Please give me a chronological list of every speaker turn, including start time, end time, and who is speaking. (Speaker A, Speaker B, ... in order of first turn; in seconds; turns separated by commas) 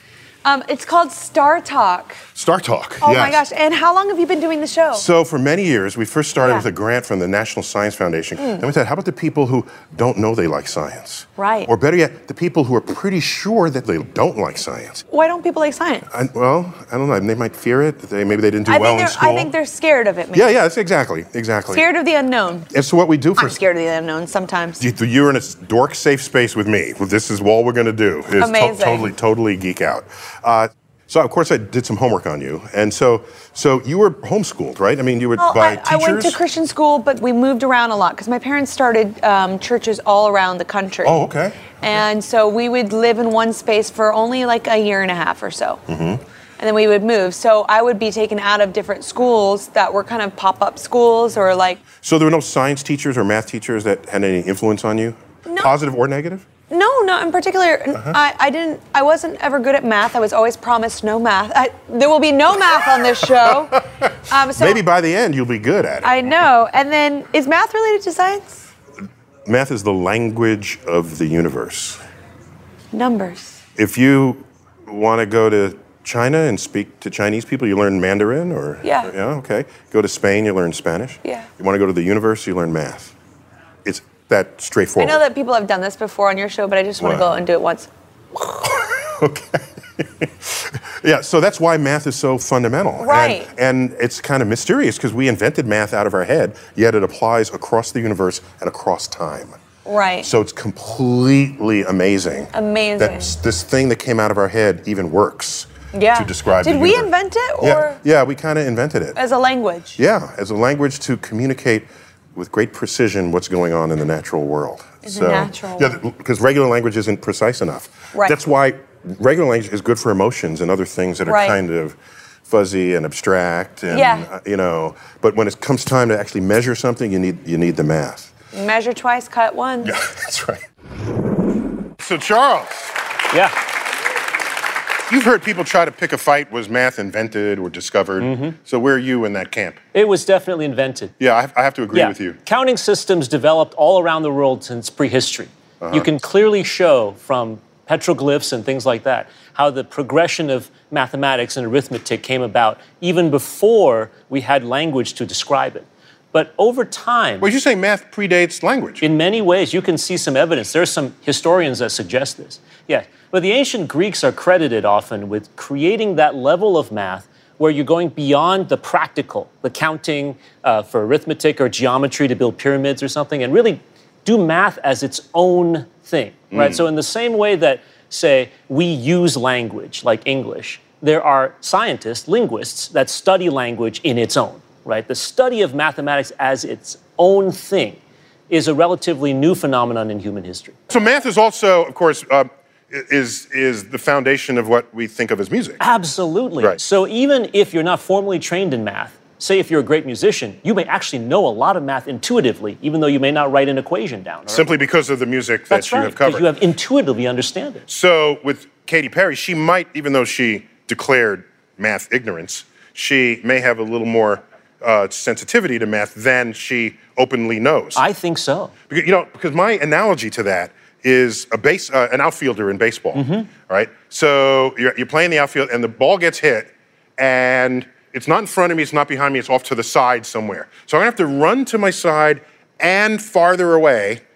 Speaker A: 0.4-2.2, Speaker B: 2.4-3.4, Speaker A: 3.0-5.1, Speaker B: 4.9-15.0, Speaker A: 11.4-11.7, Speaker A: 15.1-16.1, Speaker B: 16.1-19.5, Speaker A: 18.7-20.6, Speaker B: 20.3-21.9, Speaker A: 21.7-22.7, Speaker B: 22.7-23.6, Speaker A: 23.4-24.8, Speaker B: 24.8-36.4, Speaker A: 28.4-29.1, Speaker A: 35.4-41.2, Speaker B: 41.0-41.7, Speaker A: 41.8-45.8, Speaker B: 45.9-46.2, Speaker A: 46.6-51.8, Speaker B: 52.0-56.5, Speaker A: 55.5-55.7, Speaker A: 56.7-64.8, Speaker B: 63.4-63.8, Speaker B: 64.5-66.4, Speaker A: 66.0-68.7, Speaker B: 69.5-72.0, Speaker A: 72.9-73.6, Speaker B: 73.8-83.1, Speaker A: 78.8-79.1, Speaker B: 83.8-85.2, Speaker A: 85.0-87.9, Speaker B: 87.0-87.3, Speaker B: 88.6-99.6, Speaker A: 93.0-93.5, Speaker A: 99.8-100.3, Speaker B: 100.2-109.2, Speaker A: 102.5-103.3, Speaker A: 105.9-108.0, Speaker A: 109.2-110.0, Speaker B: 110.0-128.3, Speaker A: 115.0-116.0, Speaker A: 121.3-121.6, Speaker A: 123.9-124.3, Speaker A: 128.5-130.0, Speaker B: 129.8-130.7, Speaker B: 132.0-132.9, Speaker B: 135.1-139.8, Speaker C: 138.2-138.6, Speaker C: 139.9-141.1, Speaker B: 141.2-142.4, Speaker C: 141.9-157.5, Speaker B: 145.8-146.1, Speaker B: 157.4-159.1, Speaker C: 159.0-190.8, Speaker B: 176.5-176.8, Speaker B: 190.9-195.8, Speaker C: 195.8-204.9, Speaker B: 204.5-206.5, Speaker C: 205.7-207.8, Speaker B: 207.9-218.0, Speaker C: 218.0-218.7, Speaker B: 218.9-234.2, Speaker C: 223.2-223.5